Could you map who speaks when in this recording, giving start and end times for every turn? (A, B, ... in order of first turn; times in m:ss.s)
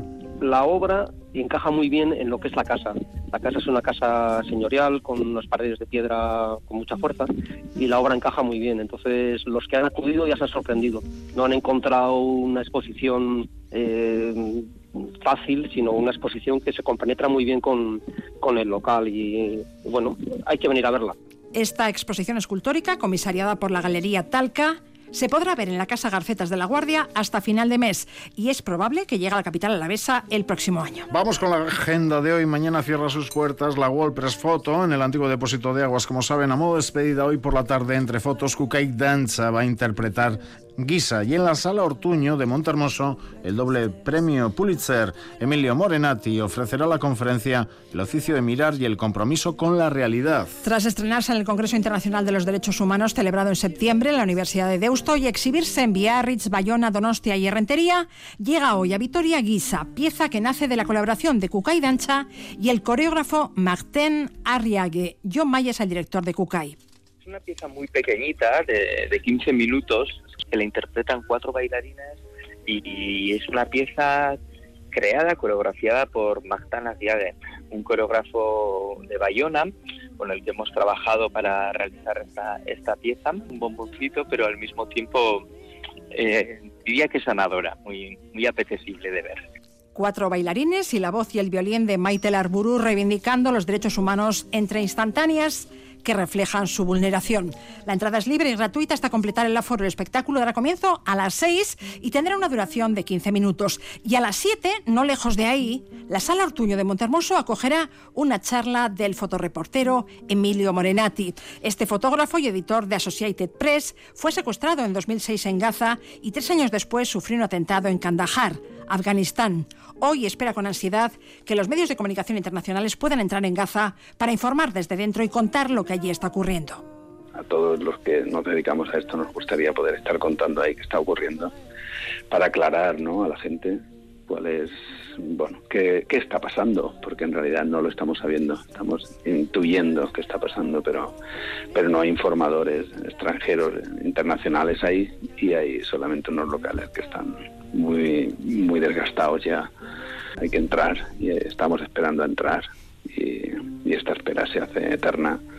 0:00.4-0:14.7 A
0:15.2-0:21.2 A
0:21.6-0:31.0 B
0:31.1-0:50.5 C
0:50.6-1:06.8 B
1:07.3-1:12.0 D
1:12.7-1:14.2 D
1:15.0-1:19.6 D
1:20.2-1:25.2 D
1:26.2-1:26.4 D
1:27.0-1:29.3 D
1:30.0-2:06.8 B
2:07.4-2:11.5 E
2:12.3-2:21.2 E
2:21.7-2:29.7 E
2:30.4-2:35.4 E